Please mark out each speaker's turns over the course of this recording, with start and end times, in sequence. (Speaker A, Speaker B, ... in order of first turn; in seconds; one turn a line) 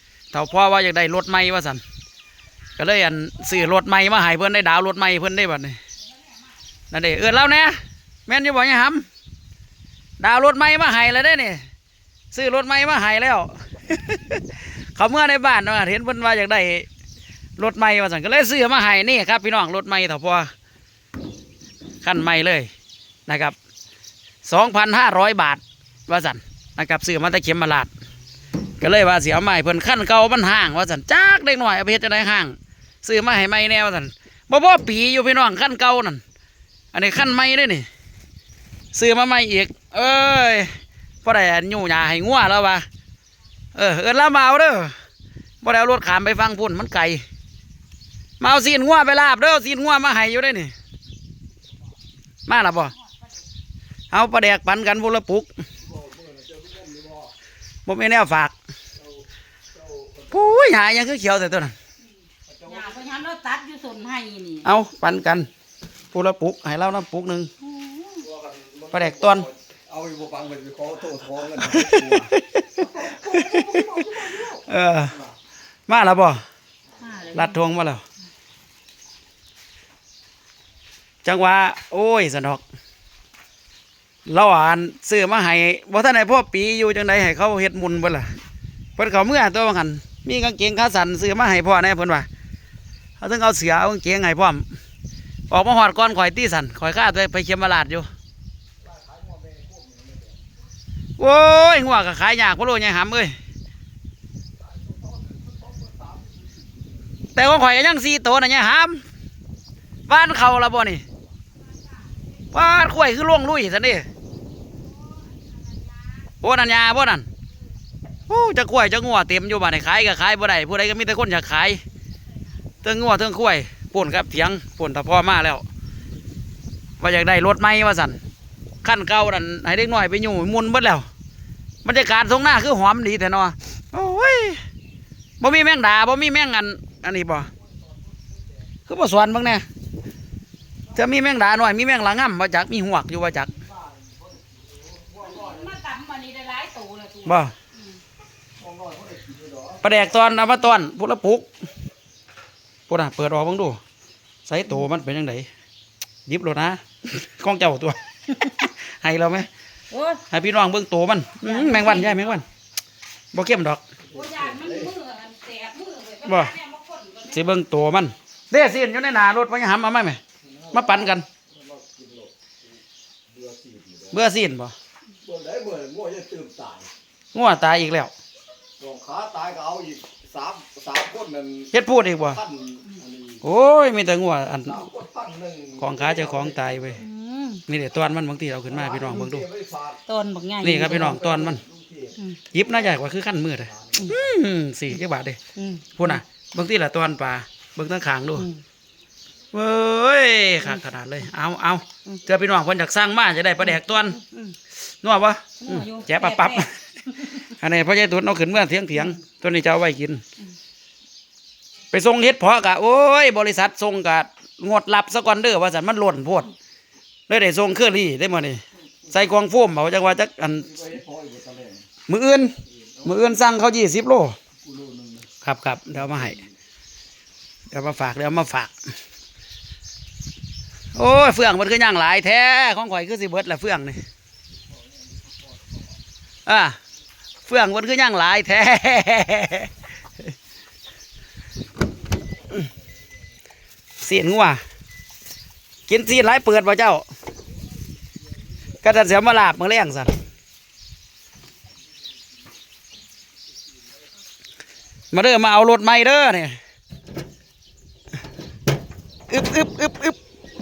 Speaker A: 0.3-1.8
Speaker A: 2.8-5.8
Speaker B: 6.0-6.6
Speaker A: 6.9-9.1
Speaker A: 10.2-11.6
Speaker A: 12.3-16.9
Speaker A: 17.6-20.5
Speaker A: 22.0-22.7
Speaker A: 23.3-23.6
Speaker A: 24.4-27.9
Speaker A: 28.8-36.2
Speaker A: 36.9-37.9
Speaker A: 38.9-42.9
Speaker A: 43.7-45.0
Speaker A: 45.6-47.2
Speaker A: 48.4-50.7
Speaker A: 52.5-52.9
Speaker A: 54.1-55.5
Speaker C: 55.8-57.3
Speaker A: 57.9-58.5
Speaker C: 59.8-60.4
Speaker A: 60.3-61.7
Speaker C: 62.5-62.8
Speaker B: 62.6-64.7
Speaker A: 64.6-65.5
Speaker A: 66.1-67.5
Speaker B: 67.6-68.3
Speaker C: 68.2-74.6
Speaker A: 68.9-69.5
Speaker A: 71.6-75.2
Speaker A: 75.9-76.4
Speaker B: 77.0-77.6
Speaker A: 77.3-78.0
Speaker A: 81.2-82.6
Speaker A: 84.2-88.3
Speaker A: 89.0-92.3
Speaker A: 93.2-94.7
Speaker A: 95.5-98.1
Speaker C: 98.9-100.3
Speaker A: 101.2-103.3
Speaker C: 104.7-106.4
Speaker A: 107.3-109.0
Speaker A: 110.1-111.0
Speaker B: 111.8-112.3
Speaker A: 112.5-114.1
Speaker B: 114.8-116.3
Speaker A: 116.4-117.3
Speaker A: 118.3-121.8
Speaker A: 122.8-125.7
Speaker A: 127.0-128.2
Speaker A: 128.8-131.1
Speaker A: 131.8-134.6
Speaker A: 135.4-137.5
Speaker A: 138.9-139.7
Speaker A: 140.9-143.6
Speaker C: 144.0-145.5
Speaker B: 145.2-148.0
Speaker A: 147.2-147.5
Speaker C: 148.6-149.8
Speaker A: 149.8-151.5
Speaker A: 152.9-153.8
Speaker A: 154.4-155.5
Speaker A: 156.3-159.5
Speaker B: 159.9-160.2
Speaker A: 160.3-162.4
Speaker B: 161.4-162.3
Speaker A: 163.3-163.8
Speaker B: 164.1-167.5
Speaker C: 164.1-164.9
Speaker A: 166.2-166.5
Speaker A: 167.3-170.2
Speaker C: 170.6-172.3
Speaker A: 170.7-171.2
Speaker C: 173.3-174.1
Speaker A: 174.1-174.7
Speaker C: 175.2-176.9
Speaker A: 177.3-178.1
Speaker C: 178.8-181.7
Speaker A: 181.7-182.4
Speaker C: 182.4-183.4
Speaker A: 183.4-184.9
Speaker C: 184.7-186.8
Speaker A: 185.8-187.0
Speaker B: 187.0-187.6
Speaker A: 187.7-189.5
Speaker C: 188.8-190.0
Speaker B: 190.1-191.2
Speaker A: 190.6-191.6
Speaker C: 191.0-192.2
Speaker B: 192.2-192.4
Speaker A: 192.5-195.4
Speaker C: 193.7-194.1
Speaker B: 195.6-196.2
Speaker A: 196.0-198.5
Speaker B: 198.4-198.6
Speaker A: 199.5-204.2
Speaker B: 203.7-204.6
Speaker A: 205.0-210.2
Speaker B: 205.6-207.5
Speaker A: 211.9-216.5
Speaker A: 217.3-220.8
Speaker C: 220.7-221.8
Speaker A: 222.1-224.4
Speaker C: 224.6-225.2
Speaker A: 225.4-226.4
Speaker A: 227.7-228.7
Speaker A: 230.9-234.0
Speaker A: 236.4-236.8
Speaker A: 237.4-239.7
Speaker A: 244.0-244.6
Speaker A: 245.9-247.1
Speaker A: 248.8-250.2
Speaker A: 255.1-256.6
Speaker A: 259.3-260.2